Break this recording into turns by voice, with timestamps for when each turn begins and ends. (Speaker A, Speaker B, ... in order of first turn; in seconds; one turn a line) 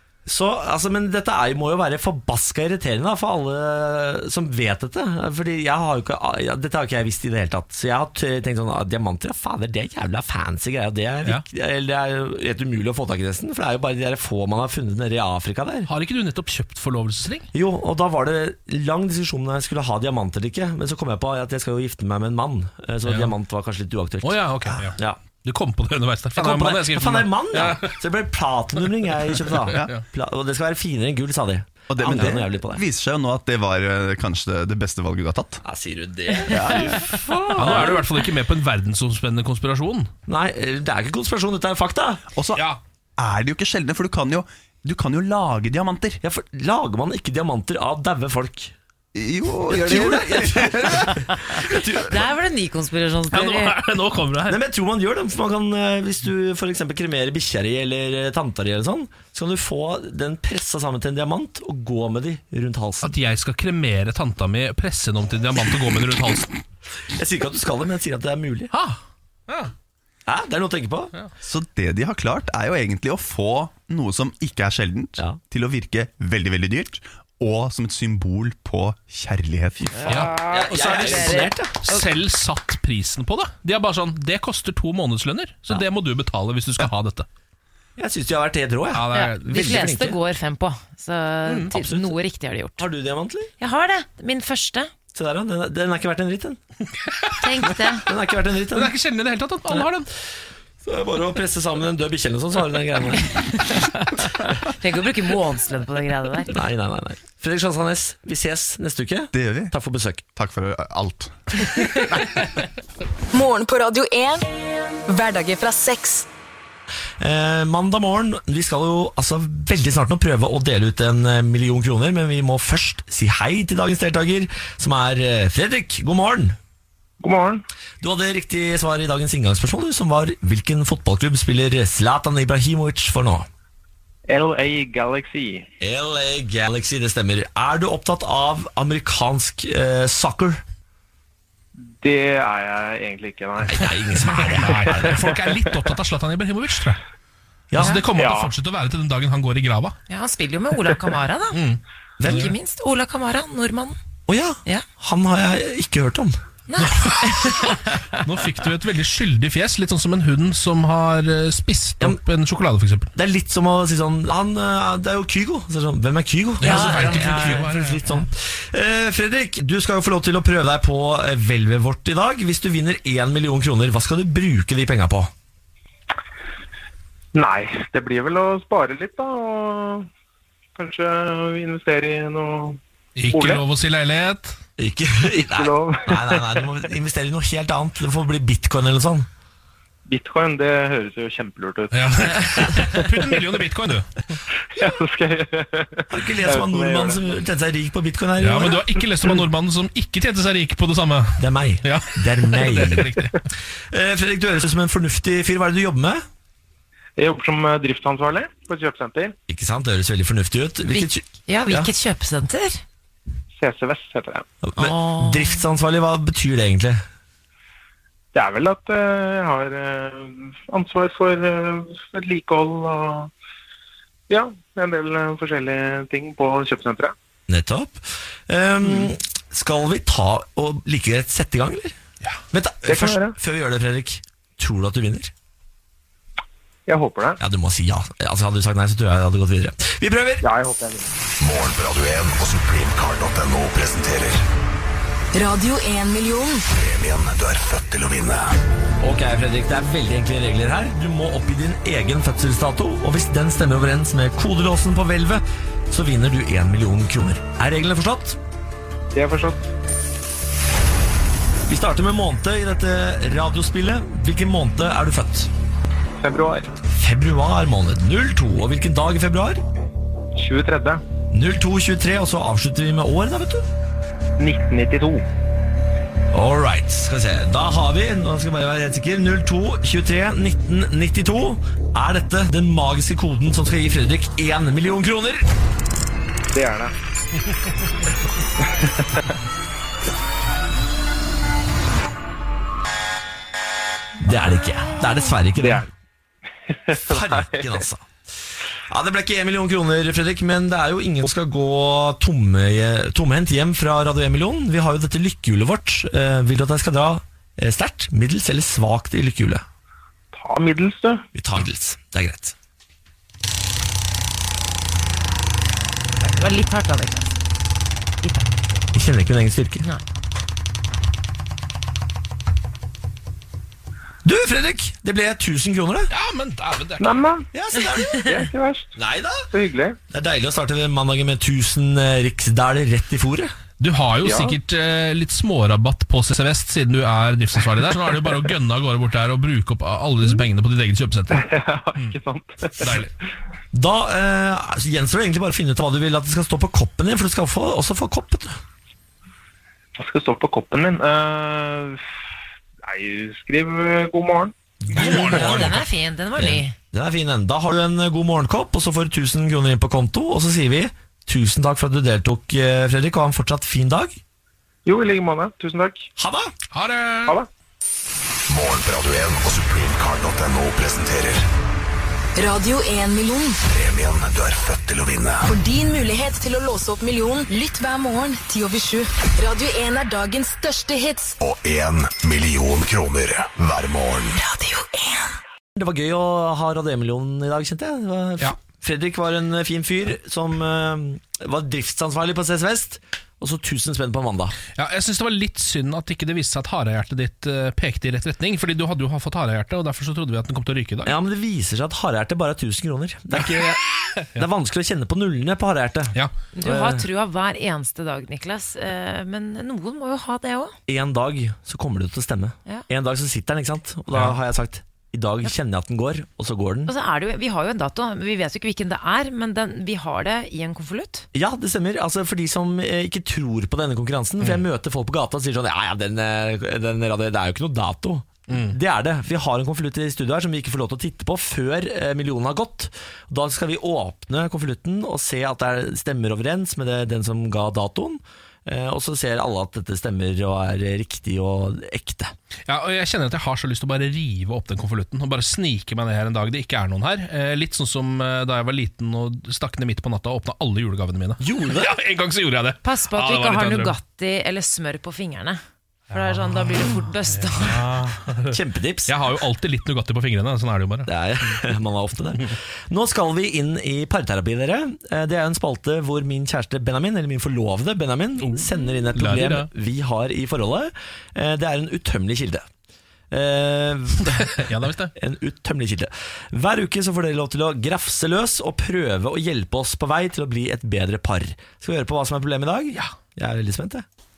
Speaker A: 0.2-15.9
Speaker B: 15.9-17.5
Speaker A: 17.5-25.2
Speaker B: 23.1-23.3
Speaker B: 24.2-27.9
Speaker A: 26.4-32.8
Speaker B: 29.5-30.0
Speaker C: 31.9-35.6
Speaker A: 35.6-38.1
Speaker C: 36.5-37.1
Speaker B: 37.5-40.1
Speaker A: 40.3-42.2
Speaker C: 42.3-42.7
Speaker C: 43.2-46.2
Speaker A: 46.2-48.7
Speaker C: 49.1-51.2
Speaker A: 49.7-52.2
Speaker D: 52.1-53.8
Speaker B: 53.3-54.6
Speaker A: 54.5-63.1
Speaker B: 63.0-66.6
Speaker A: 67.1-68.7
Speaker B: 68.7-69.7
Speaker A: 70.2-71.1
Speaker C: 71.4-79.9
Speaker A: 79.8-81.8
Speaker D: 80.0-82.0
Speaker B: 80.1-87.2
Speaker A: 88.0-90.2
Speaker B: 88.9-89.8
Speaker D: 89.1-92.9
Speaker A: 91.7-92.2
Speaker A: 92.8-93.5
Speaker D: 93.6-94.9
Speaker A: 95.1-96.6
Speaker B: 97.0-97.7
Speaker D: 97.4-98.0
Speaker A: 98.0-98.9
Speaker B: 98.7-100.1
Speaker A: 100.8-103.4
Speaker D: 104.7-106.5
Speaker A: 106.5-110.2
Speaker C: 109.3-109.7
Speaker C: 110.3-112.4
Speaker E: 113.3-114.5
Speaker E: 115.1-116.3
Speaker A: 117.2-126.6
Speaker F: 127.2-127.6
Speaker A: 128.0-133.5
Speaker F: 134.3-135.7
Speaker A: 135.8-140.6
Speaker F: 141.8-145.8
Speaker A: 143.7-145.2
Speaker B: 144.4-147.0
Speaker A: 147.7-148.0
Speaker B: 147.8-149.9
Speaker F: 148.1-148.5
Speaker D: 150.1-151.6
Speaker B: 151.5-152.5
Speaker A: 152.2-152.5
Speaker D: 152.2-154.0
Speaker A: 154.3-156.4
Speaker D: 156.7-157.9
Speaker B: 156.8-163.1
Speaker A: 163.1-175.3
Speaker B: 166.6-168.2
Speaker D: 166.6-167.6
Speaker F: 177.3-180.1
Speaker F: 180.8-183.6
Speaker B: 183.2-184.6
Speaker A: 184.8-189.3
Speaker F: 185.4-186.8
Speaker F: 190.1-193.6
Speaker B: 191.9-194.2
Speaker F: 194.7-197.3
Speaker A: 196.1-198.8
Speaker B: 198.4-203.4
Speaker A: 201.4-203.2
Speaker A: 203.9-206.2
Speaker F: 207.2-209.3
Speaker A: 209.5-211.9
Speaker D: 210.9-212.8
Speaker F: 213.6-214.4
Speaker A: 214.6-217.0
Speaker D: 214.8-215.6
Speaker F: 218.3-223.3
Speaker F: 224.3-227.1
Speaker A: 227.5-231.9
Speaker A: 232.5-235.3
Speaker F: 232.8-233.4
Speaker F: 236.8-237.4
Speaker A: 237.4-240.4
Speaker F: 240.4-241.1
Speaker G: 241.4-244.4
Speaker E: 245.3-246.7
Speaker G: 246.7-248.6
Speaker A: 249.0-258.4
Speaker F: 259.1-259.7
Speaker A: 261.7-265.5
Speaker F: 266.2-266.7
Speaker A: 267.0-269.6
Speaker F: 270.3-271.0
Speaker A: 271.3-273.7
Speaker F: 274.4-275.2
Speaker A: 276.3-285.4
Speaker F: 286.5-286.9
Speaker F: 288.8-289.2
Speaker A: 294.2-295.8
Speaker F: 295.6-295.9
Speaker F: 296.7-297.8
Speaker A: 296.9-298.1
Speaker A: 298.9-309.6
Speaker F: 310.3-311.2
Speaker A: 311.3-312.5
Speaker D: 316.2-317.4
Speaker D: 318.2-318.5
Speaker A: 318.9-319.8
Speaker A: 324.2-326.1
Speaker B: 326.1-327.1
Speaker F: 327.0-327.5
Speaker A: 327.5-328.3
Speaker F: 328.2-328.9
Speaker A: 328.9-329.5
Speaker F: 329.5-330.0
Speaker A: 330.1-333.5
Speaker B: 333.8-341.4
Speaker F: 334.2-334.6
Speaker F: 341.3-343.0
Speaker B: 342.8-343.1
Speaker A: 343.7-348.6
Speaker F: 350.0-352.0
Speaker F: 352.8-354.5
Speaker A: 354.9-355.8
Speaker D: 354.9-356.7
Speaker B: 354.9-355.8
Speaker A: 356.4-364.2
Speaker F: 364.8-366.1
Speaker A: 366.2-366.5
Speaker B: 366.7-367.4
Speaker G: 368.5-371.4
Speaker E: 372.4-373.6
Speaker G: 373.7-375.5
Speaker E: 375.4-381.4
Speaker G: 381.4-384.4
Speaker E: 384.4-385.4
Speaker A: 385.8-394.6
Speaker B: 394.8-401.1
Speaker A: 401.0-403.8
Speaker B: 403.4-404.4
Speaker A: 404.3-407.1
Speaker D: 406.5-410.8
Speaker A: 410.9-416.9
Speaker D: 416.9-421.2
Speaker A: 421.3-442.3
Speaker B: 428.5-428.7
Speaker B: 442.7-453.9
Speaker A: 451.4-451.9
Speaker D: 452.8-457.8
Speaker B: 456.1-461.6
Speaker A: 458.5-459.1
Speaker A: 461.1-472.6
Speaker B: 469.1-469.7
Speaker A: 473.3-474.6
Speaker B: 474.2-475.1
Speaker A: 475.1-484.0